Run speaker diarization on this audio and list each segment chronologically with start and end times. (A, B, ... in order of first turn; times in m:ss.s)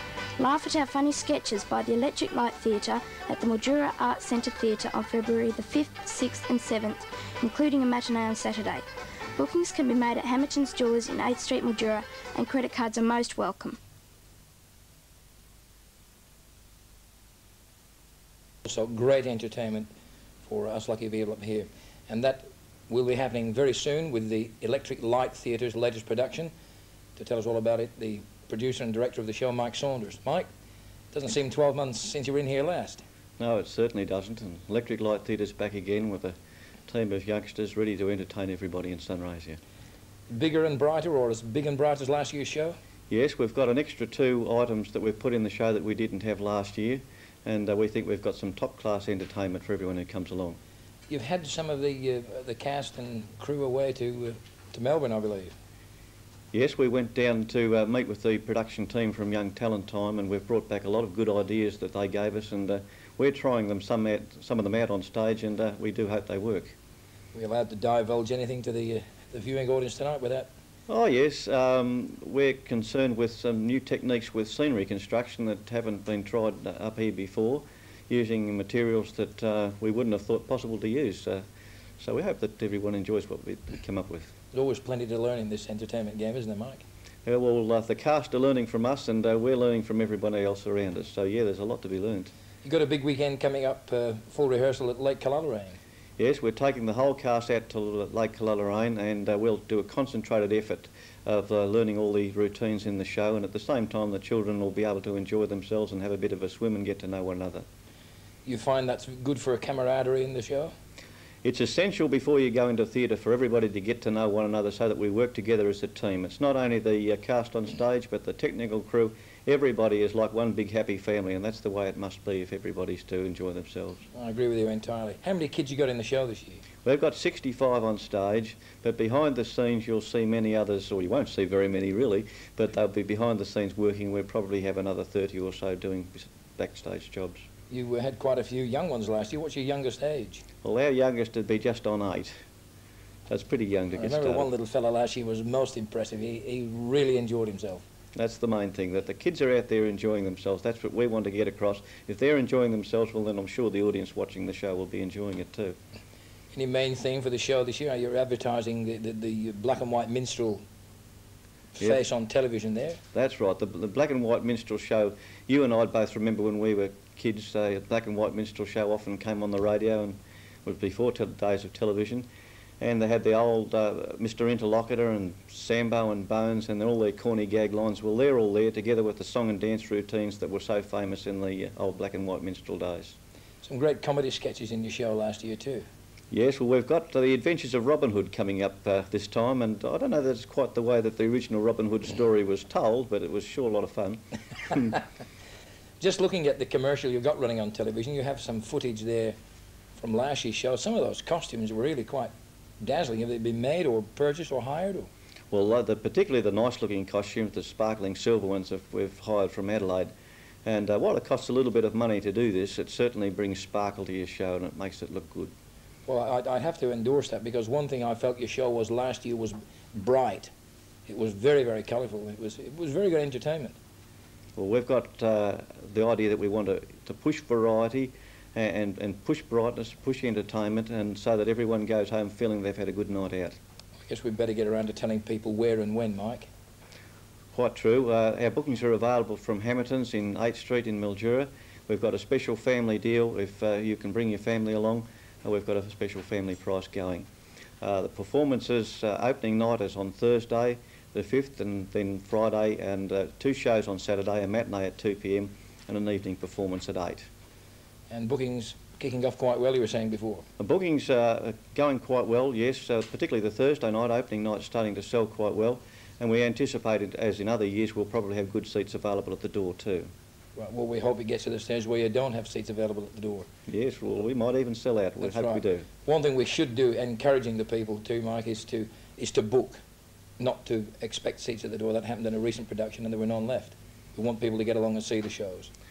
0:00.4-0:08.8 A
0:09.4-0:13.8 A
0:18.6-0:19.9 B
0:20.5-0:26.5 B
0:27.2-0:30.5 B
0:31.1-0:33.0 B
0:33.4-0:39.6 C
0:40.3-0:42.8 B
0:43.1-0:50.6 C
0:51.1-0:55.6 B
0:56.5-1:06.8 C
1:07.3-1:10.5 B
1:10.9-1:21.4 C
1:22.0-1:24.3 C
1:24.5-1:26.8 B
1:27.2-1:32.3 C
1:32.6-1:35.8 B
1:36.2-1:47.7 C
1:48.4-1:50.8 B
1:51.4-2:04.0 C
2:04.1-2:06.6 B
2:06.8-2:17.5 C
2:17.7-2:20.4 B
2:20.6-2:22.4 C
2:23.3-2:24.5 C
2:24.0-2:27.8 B
2:28.2-2:35.8 C
2:36.5-2:40.6 B
2:41.8-2:43.0 B
2:43.1-2:52.3 C
2:52.8-3:03.2 C
3:03.6-3:05.9 B
3:06.3-3:15.0 C
3:16.0-3:19.4 B
3:20.0-3:25.1 B
3:25.5-3:30.1 C
3:30.6-3:35.5 C
3:36.1-3:40.5 B
3:41.1-3:43.8 B
3:44.6-3:53.6 C
3:54.1-3:56.5 B
3:57.5-4:07.3 C
4:07.8-4:17.3 C
4:18.1-4:20.5 B
4:20.6-4:30.1 C
4:30.6-4:33.5 B
4:33.7-4:35.9 C
4:35.2-4:39.8 B
4:40.4-4:45.7 B